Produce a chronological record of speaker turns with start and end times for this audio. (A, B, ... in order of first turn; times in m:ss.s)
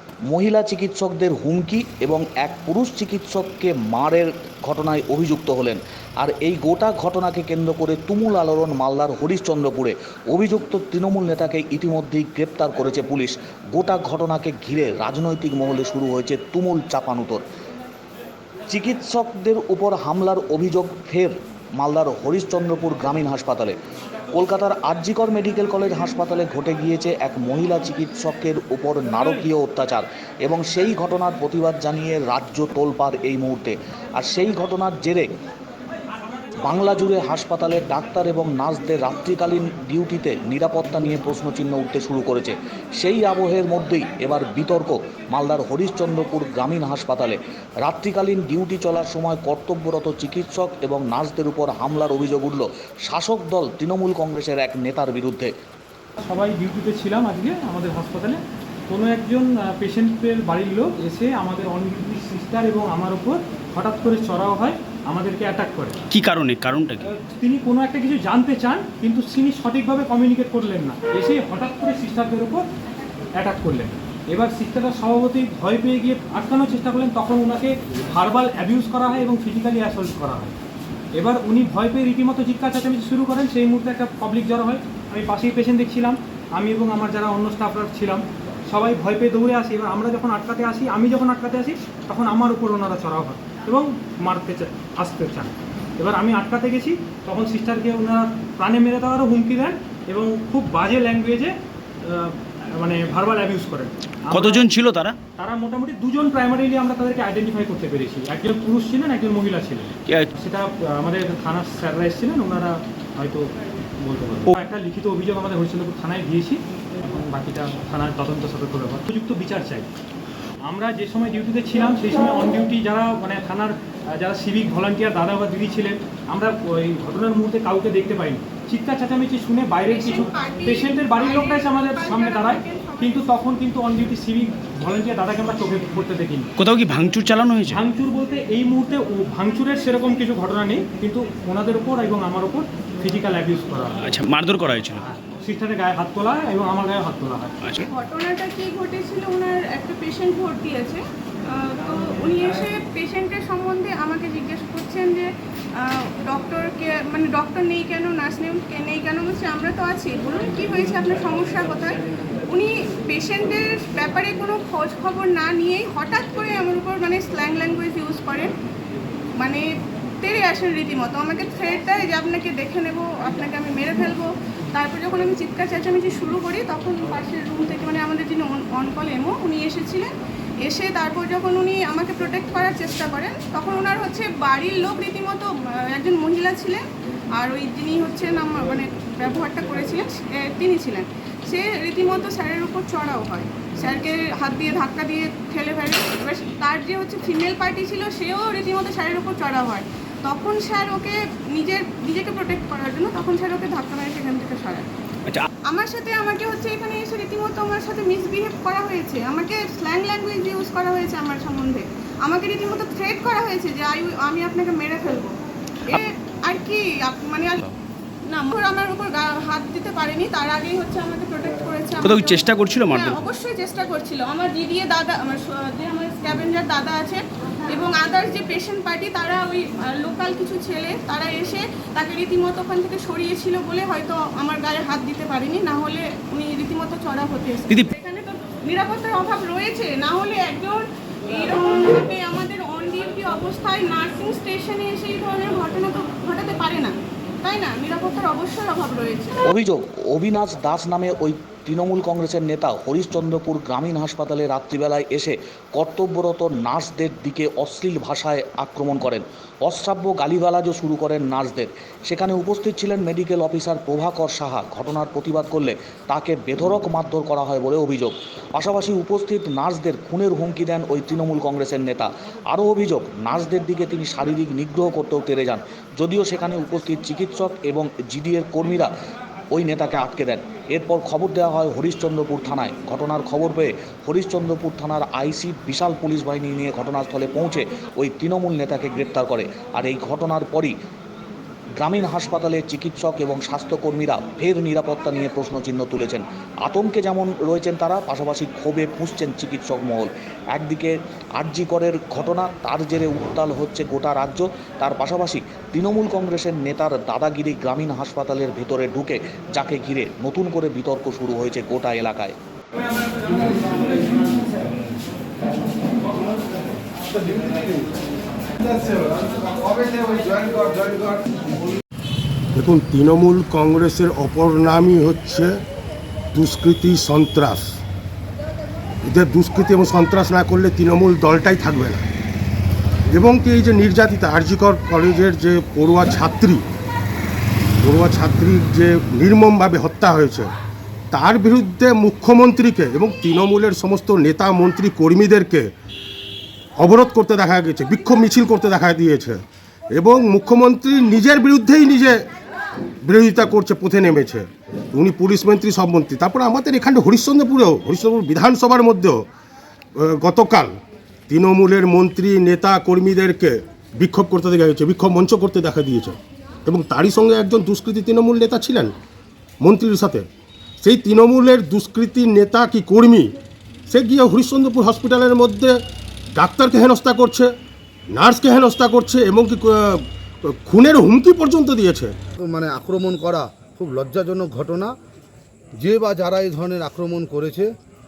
0:00.3-0:17.4 A
0:18.7-0:23.8 A
0:24.3-0:35.2 A
0:36.6-0:55.5 A
0:56.2-1:06.0 B
1:06.1-1:07.0 C
1:07.0-1:12.6 B
1:13.4-1:20.6 B
1:21.1-1:44.7 B
1:44.3-1:45.2 C
1:45.4-1:59.9 B
2:00.6-2:16.5 B
2:09.8-2:13.2 D
2:16.6-2:17.8 C
2:17.6-2:24.1 B
2:24.0-2:25.0 C
2:25.1-2:27.6 B
2:27.8-2:48.5 D
2:50.2-3:00.1 D
3:00.6-3:06.8 D
3:07.3-3:24.9 D
3:25.7-3:35.3 D
3:35.9-3:37.6 D
3:38.3-4:09.4 D
3:42.0-3:43.2 C
4:09.4-4:38.9 A
4:39.5-4:50.7 A
4:51.8-5:12.3 A
5:22.5-5:25.6 E
5:26.3-5:27.8 E
5:29.0-5:32.0 E
5:33.1-5:36.6 E
5:37.8-5:40.5 E
5:41.1-5:45.7 E
5:46.8-5:49.4 E
5:49.9-5:52.3 E
5:53.0-5:59.2 E
6:00.0-6:00.7 E
6:01.3-6:08.9 E
6:09.6-6:10.2 E
6:10.8-6:13.3 E
6:13.9-6:15.8 E
6:16.3-6:17.5 E
6:18.1-6:22.1 E
6:22.4-6:24.9 F
6:25.8-6:27.7 F